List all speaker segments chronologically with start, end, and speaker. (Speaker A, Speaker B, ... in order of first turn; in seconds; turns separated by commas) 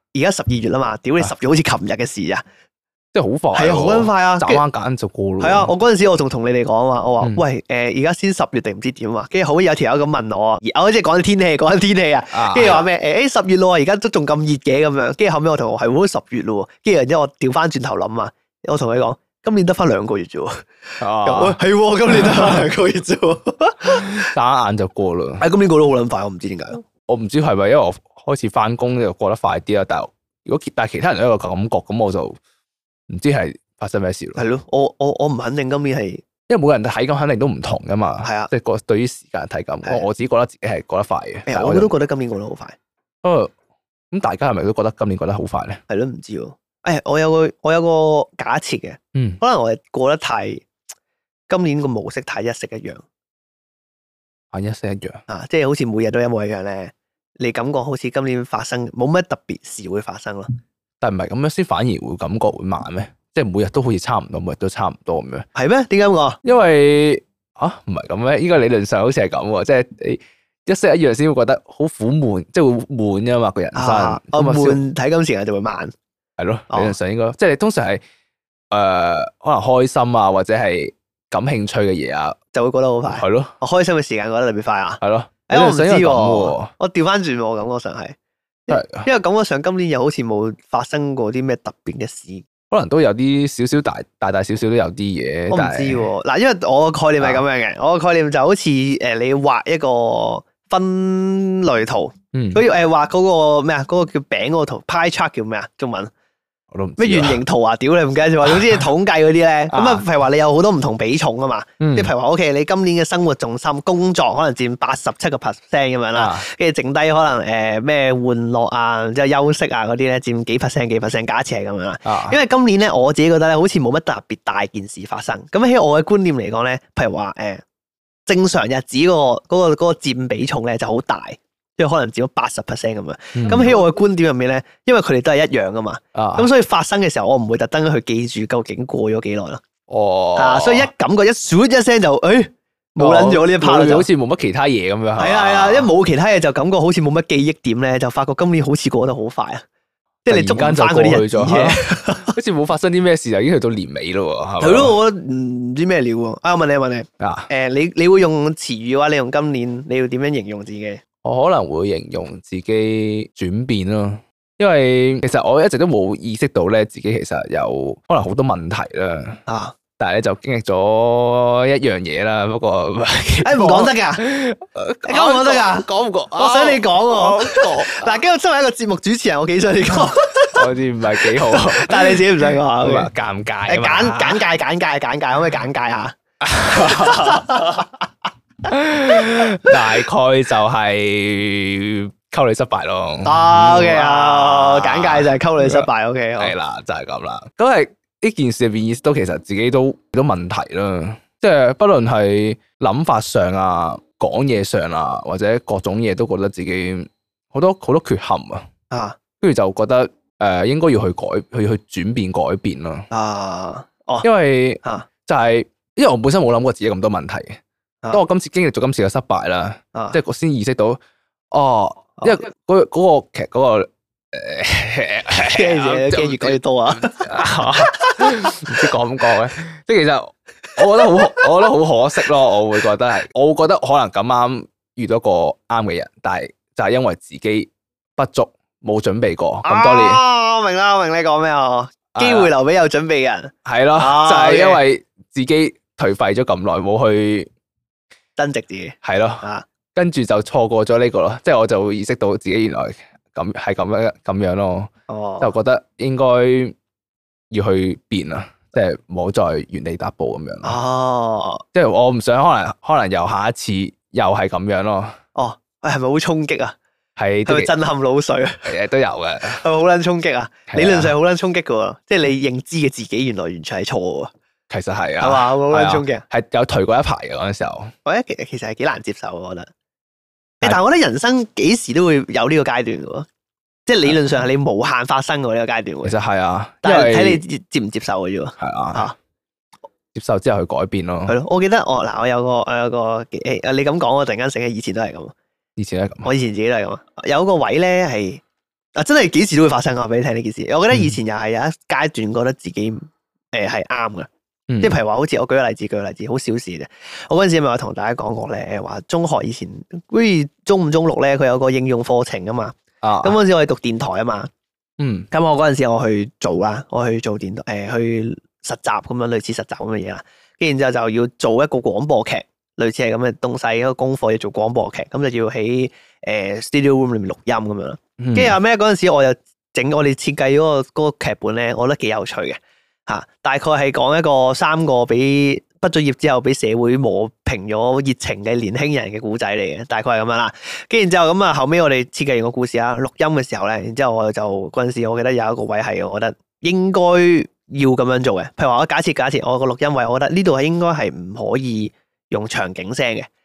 Speaker A: 0.1-2.4, Speaker B: 3.1-5.7, Speaker A: 3.5-4.6, Speaker A: 5.4-24.3, Speaker B: 12.3-12.8, Speaker B: 21.0-21.6, Speaker B: 22.1-22.6, Speaker B: 23.8-25.4, Speaker A: 25.4-26.8, Speaker B: 27.1-32.4, Speaker B: 33.1-34.4, Speaker A: 34.4-36.2, Speaker B: 36.5-41.9, Speaker A: 38.2-38.5, Speaker A: 41.5-42.8, Speaker B: 43.2-43.5, Speaker B: 44.1-45.8, Speaker A: 45.9-50.6, Speaker B: 49.1-49.4, Speaker A: 51.5-53.0, Speaker B: 54.5-55.2, Speaker A: 55.3-60.5, Speaker B: 61.0-65.5, Speaker A: 65.5-66.4, Speaker B: 66.4-74.8, Speaker A: 73.7-75.9, Speaker B: 76.4-78.0, Speaker B: 78.7-82.4, Speaker A: 82.5-88.2, Speaker B: 83.1-83.5, Speaker B: 85.0-86.7, Speaker A: 88.7-92.4, Speaker B: 88.7-89.0, Speaker B: 92.7-96.0, Speaker A: 95.5-106.1, Speaker B: 102.3-102.6, Speaker B: 106.7-107.4, Speaker A: 107.0-127.6, Speaker B: 108.5-108.8, Speaker B: 109.7-110.0, Speaker B: 111.8-112.1, Speaker B: 116.1-116.5, Speaker B: 122.0-122.4, Speaker A: 128.3-139.6, Speaker B: 133.3-133.7, Speaker B: 136.1-136.5, Speaker B: 139.9-140.9, Speaker A: 140.3-144.1, Speaker B: 143.0-145.9, Speaker A: 145.2-149.6, Speaker A: 150.2-152.3, Speaker B: 150.3-154.9, Speaker A: 154.6-161.0, Speaker B: 157.2-157.5, Speaker B: 161.2-169.4, Speaker A: 169.5-169.7, Speaker B: 170.0-178.1, Speaker A: 173.4-174.2, Speaker A: 175.1-180.6, Speaker B: 180.5-184.4, Speaker A: 181.2-183.1, Speaker A: 183.7-187.9, Speaker B: 186.4-187.5, Speaker B: 188.7-195.9, Speaker A: 193.2-196.5, Speaker B: 196.4-208.7, Speaker A: 208.9-209.2, Speaker B: 209.4-213.1, Speaker A: 213.1-214.2, Speaker B: 214.2-217.6, Speaker B: 218.1-221.0, Speaker B: 221.5-240.2, Speaker A: 225.5-228.9, Speaker A: 230.8-231.5, Speaker A: 239.6-244.8, Speaker B: 242.2-242.5, Speaker B: 243.6-247.5, Speaker A: 248.4-249.7, Speaker B: 249.0-249.4, Speaker B: 249.9-254.9, Speaker A: 255.1-255.5, Speaker B: 255.4-256.7, Speaker B: 257.5-260.8, Speaker A: 260.6-261.6, Speaker B: 261.7-265.1, Speaker A: 265.3-266.8, Speaker B: 267.2-267.7, Speaker A: 267.4-268.7, Speaker B: 268.6-269.6, Speaker A: 269.5-274.3, Speaker B: 270.7-271.1, Speaker B: 274.7-277.9, Speaker A: 275.2-276.2, Speaker A: 278.0-279.7, Speaker A: 280.6-283.3, Speaker A: 283.9-286.1, Speaker B: 286.0-287.4, Speaker A: 286.8-289.2, Speaker B: 288.6-289.1, Speaker B: 290.1-291.3, Speaker A: 291.3-295.3, Speaker B: 295.8-296.3, Speaker A: 296.2-298.4, Speaker A: 298.9-304.3, Speaker B: 304.7-304.9, Speaker A: 304.8-314.5, Speaker B: 313.0-313.4, Speaker B: 315.0-315.3, Speaker A: 315.3-353.3, Speaker B: 328.2-328.6